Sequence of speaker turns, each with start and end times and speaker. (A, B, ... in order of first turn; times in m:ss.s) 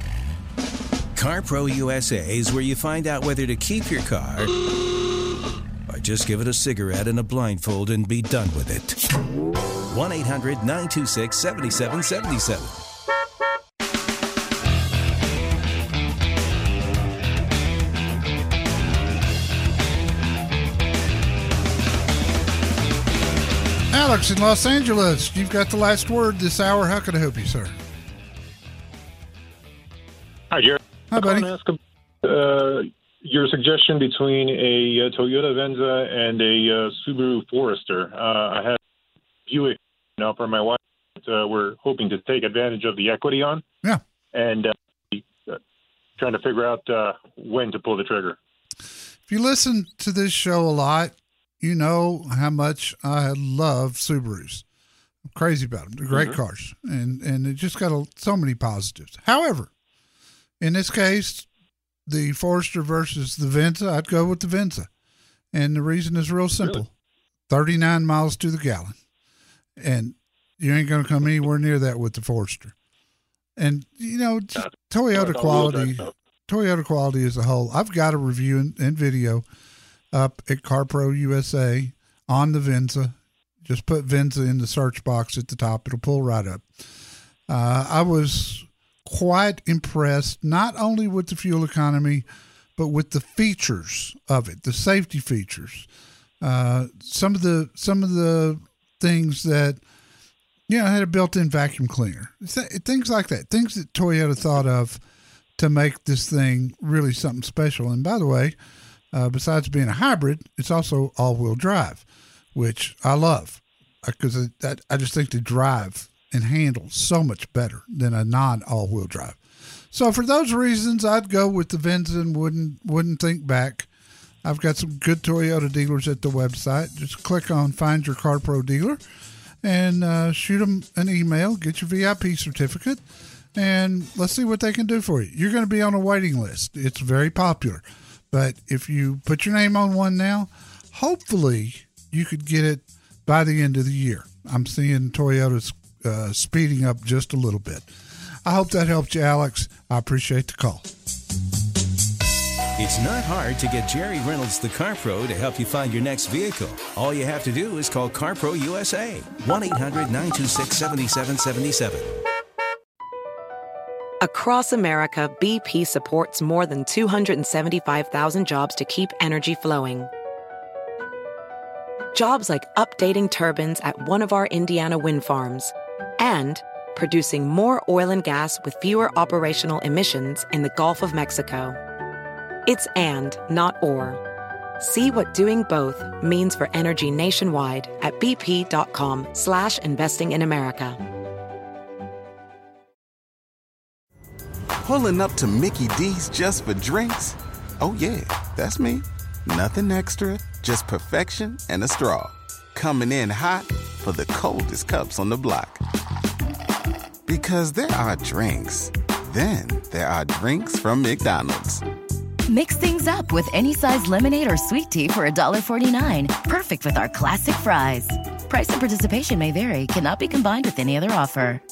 0:01.1-0:04.5 A
0:05.9-0:09.0 A
0:09.9-0:12.8 A
0:23.9-0:27.8 B
0:30.5-0:38.8 C
0:31.1-0:31.5 B
0:39.5-0:43.6 C
0:44.3-0:45.6 C
0:46.2-0:48.4 C
0:49.3-0:54.6 B
0:55.3-0:59.7 B
1:00.6-1:01.5 B
1:02.1-1:04.9 B
1:05.5-1:06.9 B
1:07.5-1:09.0 B
1:09.8-1:12.7 B
1:13.6-1:19.4 B
1:20.1-1:26.6 B
1:27.5-1:32.2 B
1:32.8-1:35.9 B
1:36.4-1:39.8 B
1:40.7-1:45.0 B
1:45.6-1:48.6 B
1:49.1-1:59.4 B
1:59.9-2:03.9 B
2:04.4-2:09.0 B
2:09.6-2:13.0 B
2:13.5-2:27.9 B
2:28.4-2:30.9 B
2:32.8-2:42.1 A
2:44.2-2:50.1 D
2:52.1-3:01.8 D
3:02.6-3:04.2 D
3:04.8-3:11.0 D
3:14.8-3:25.8 E
3:27.3-3:31.8 E
3:32.5-3:41.6 F